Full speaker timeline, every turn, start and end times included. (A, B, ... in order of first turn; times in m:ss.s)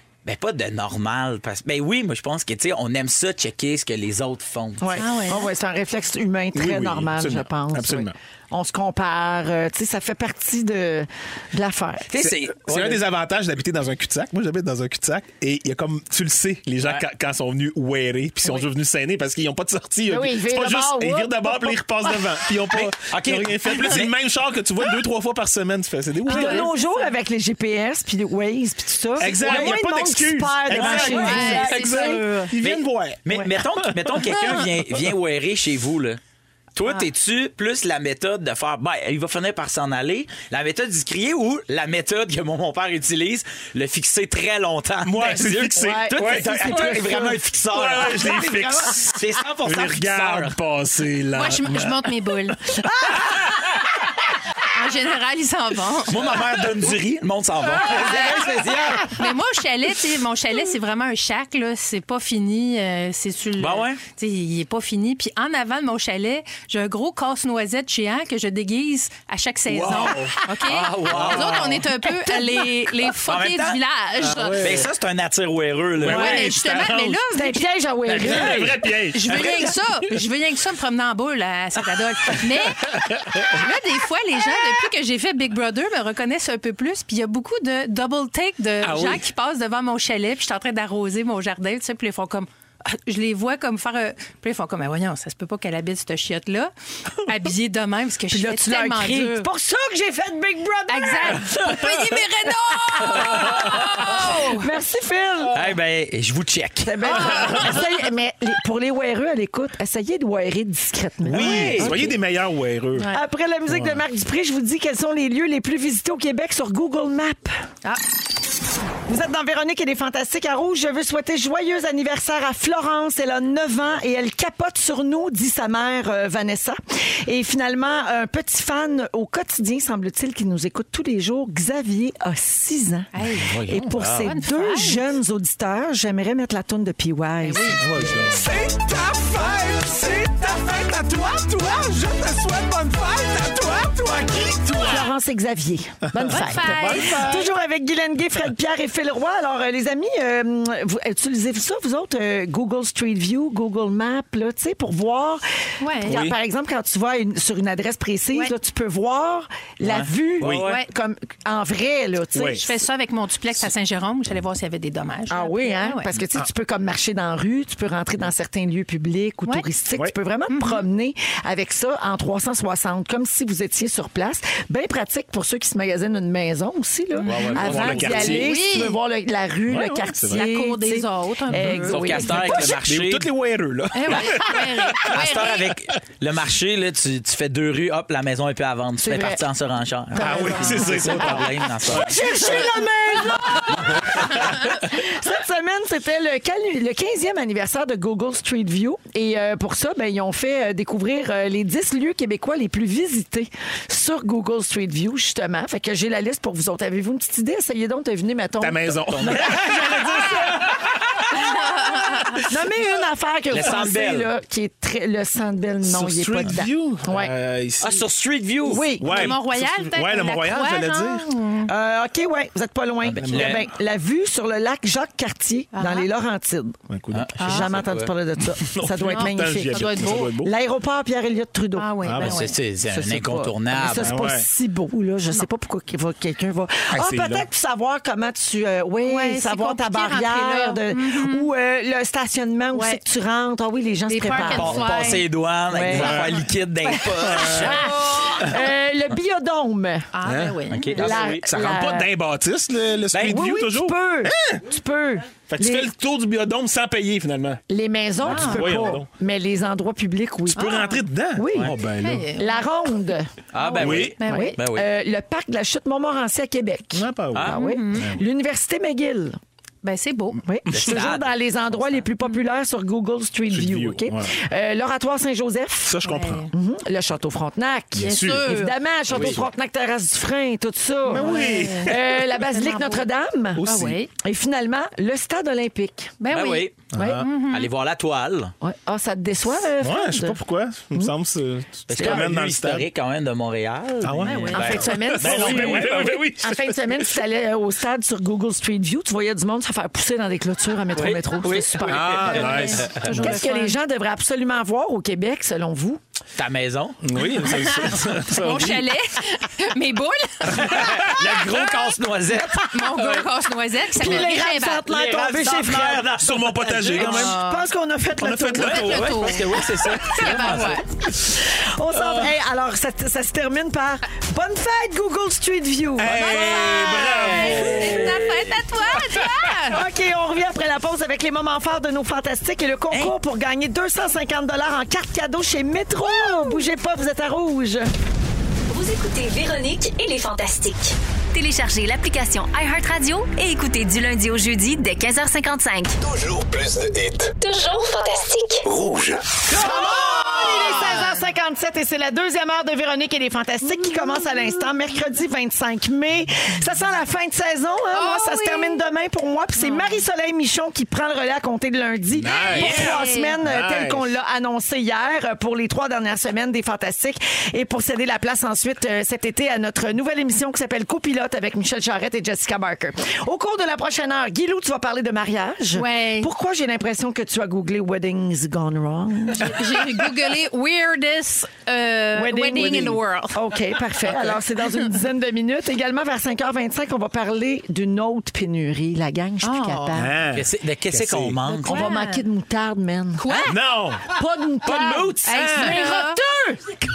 0:00.2-0:05.0 A
0:04.8-0:12.1 B
0:05.0-0:05.5 C
0:06.5-0:08.1 D
0:12.1-0:13.0 A
0:12.2-0:26.7 D
0:20.1-0:22.3 B
0:22.6-0:24.1 A
0:26.2-0:27.1 C
0:26.2-0:32.5 B
0:29.2-0:33.2 D
0:29.3-0:29.8 A
0:30.7-0:31.8 A
0:31.1-0:32.4 C
0:32.6-0:36.2 A
0:33.8-0:34.6 D
0:36.7-0:50.6 A
0:45.0-0:47.1 D
0:45.8-0:49.0 B
0:47.7-0:52.1 D
0:51.3-0:52.6 C
0:52.8-0:53.3 B
0:54.7-0:56.4 C
0:56.1-0:59.1 A
0:58.1-0:58.7 B
0:59.1-1:14.8 C
1:03.6-1:04.0 A
1:09.7-1:10.4 D
1:10.7-1:11.9 A
1:11.1-1:11.8 D
1:13.2-1:13.8 A
1:14.2-1:14.9 D
1:14.6-1:16.5 A
1:16.0-1:17.2 D
1:16.0-1:17.7 C
1:17.3-1:18.8 B
1:18.1-1:19.8 D
1:18.2-1:18.7 A
1:19.1-1:22.9 C
1:22.7-1:23.6 D
1:23.5-1:39.5 C
1:28.8-1:29.2 D
1:38.3-1:41.7 B
1:40.9-1:44.6 C
1:42.9-1:45.7 B
1:45.5-1:46.9 A
1:46.8-1:52.1 B
1:47.1-1:47.7 C
1:51.2-1:53.1 D
1:51.3-1:52.1 A
1:52.9-1:53.2 C
1:53.1-1:57.5 B
1:53.7-1:54.0 D
1:59.0-2:18.2 B
2:13.1-2:13.5 C
2:13.4-2:13.8 D
2:13.9-2:14.2 A
2:14.2-2:15.0 C
2:17.4-2:18.2 C
2:17.8-2:18.4 D
2:18.3-2:25.1 E
2:24.8-2:42.6 B
2:26.1-2:27.2 D
2:26.3-2:27.2 C
2:35.8-2:36.1 C
2:36.0-2:36.4 D
2:39.8-2:40.8 A
2:40.4-2:40.7 D
2:42.3-2:42.6 D
2:42.5-2:46.1 C
2:45.3-3:02.8 B
2:50.5-2:50.8 C
2:57.1-2:59.0 C
2:57.2-2:58.5 A
2:57.6-2:58.5 D
2:59.7-3:00.4 D
3:00.3-3:02.0 C
3:01.5-3:05.1 D
3:01.9-3:03.3 A
3:03.9-3:05.7 C
3:05.1-3:12.2 A
3:09.0-3:09.4 B
3:10.1-3:30.6 B
3:10.2-3:12.8 D
3:10.2-3:11.2 C
3:13.8-3:14.4 D
3:28.6-3:31.4 D
3:29.1-3:30.4 A
3:31.3-3:32.4 C
3:32.0-3:32.4 D
3:32.4-3:37.3 B
3:33.5-3:34.3 A
3:35.8-3:38.0 D
3:37.8-3:38.8 A
3:38.6-3:39.4 B
3:39.0-3:41.7 C
3:39.0-3:41.2 D
3:41.6-3:46.8 B
3:43.0-3:43.6 A
3:43.2-3:43.6 D
3:45.7-3:46.1 C
3:46.9-3:47.4 D
3:47.1-3:48.1 A
3:47.4-3:47.7 C
3:47.4-4:05.1 B
3:48.7-3:50.5 D
3:49.1-3:50.3 C
3:51.8-3:52.6 C
3:52.0-3:52.4 D
3:52.2-3:54.1 A
3:54.0-3:54.4 D
3:56.9-3:57.4 D
3:59.0-4:01.5 C
4:02.7-4:03.0 C
4:04.1-4:05.2 C
4:04.4-4:07.8 A
4:05.7-4:06.4 B
4:05.9-4:06.4 D
4:07.2-4:07.8 D
4:07.4-4:10.1 B
4:07.6-4:08.3 C
4:10.1-4:10.9 C
4:10.2-4:14.6 D
4:10.7-4:11.5 A
4:10.9-4:12.1 B
4:13.1-4:13.4 A
4:13.1-4:15.9 B
4:15.5-4:17.6 D
4:17.7-4:21.7 B
4:18.2-4:19.1 D
4:18.2-4:18.9 C
4:20.5-4:22.3 D
4:20.5-4:21.0 C
4:22.0-4:22.6 C
4:22.3-4:23.3 B
4:23.5-4:24.9 A
4:23.6-4:24.6 C
4:23.8-4:24.2 D
4:23.9-4:29.4 B
4:26.9-4:28.2 D
4:27.5-4:28.1 C
4:29.8-4:30.4 C
4:30.4-4:46.2 B
4:30.7-4:31.3 A
4:30.7-4:31.0 D
4:33.5-4:34.3 D
4:35.8-4:36.4 D
4:36.0-4:36.5 C
4:38.0-4:38.5 D
4:38.0-4:38.7 C
4:39.1-4:39.4 A
4:39.1-4:39.4 D
4:41.1-4:42.4 D
4:41.1-4:41.9 C
4:42.5-4:43.0 C
4:43.6-4:44.0 D
4:43.6-4:44.1 C
4:46.2-4:47.7 C
4:46.3-4:46.8 A
4:46.9-4:47.2 D
4:47.0-4:47.2 B
4:47.5-4:48.5 A
4:48.6-4:50.4 B
4:49.8-4:52.8 D
4:51.9-4:56.1 A
4:52.0-4:52.3 B
4:54.0-4:57.1 D
4:54.2-4:55.0 C
4:54.5-5:06.0 B
5:00.9-5:03.0 A
5:01.8-5:03.3 D
5:02.2-5:03.8 C
5:06.4-5:07.0 A
5:07.0-5:08.9 D
5:07.4-5:10.9 C
5:10.5-5:11.2 D
5:10.6-5:12.8 A
5:12.6-5:14.8 C
5:13.9-5:16.1 B
5:14.0-5:14.3 A
5:14.8-5:17.3 A
5:16.2-5:17.4 D
5:17.0-5:17.6 C
5:17.0-5:19.3 B
5:18.2-5:19.6 D
5:18.6-5:20.7 A
5:18.6-5:19.4 C
5:20.0-5:20.8 C
5:20.1-5:20.8 D
5:20.4-5:26.5 B
5:22.0-5:22.3 D
5:26.0-5:28.3 D
5:26.1-5:29.8 C
5:26.8-5:28.3 A
5:29.7-5:37.9 B
5:38.7-5:46.0 F
5:46.3-5:47.2 E
5:47.4-5:48.6 F
5:48.8-5:49.1 E
5:49.5-6:19.6 B
5:49.8-5:51.2 C
5:57.9-5:58.8 C
5:59.6-6:00.0 C
6:02.1-6:04.0 D
6:02.3-6:03.4 C
6:15.7-6:16.3 C
6:19.4-6:23.4 C
6:22.1-6:30.1 B
6:29.4-6:30.0 C
6:29.9-6:31.4 D
6:30.3-6:31.9 A
6:31.5-6:36.8 B
6:31.6-6:32.2 C
6:33.2-6:33.6 C
6:33.5-6:34.0 D
6:34.6-6:35.8 A
6:35.2-6:36.2 C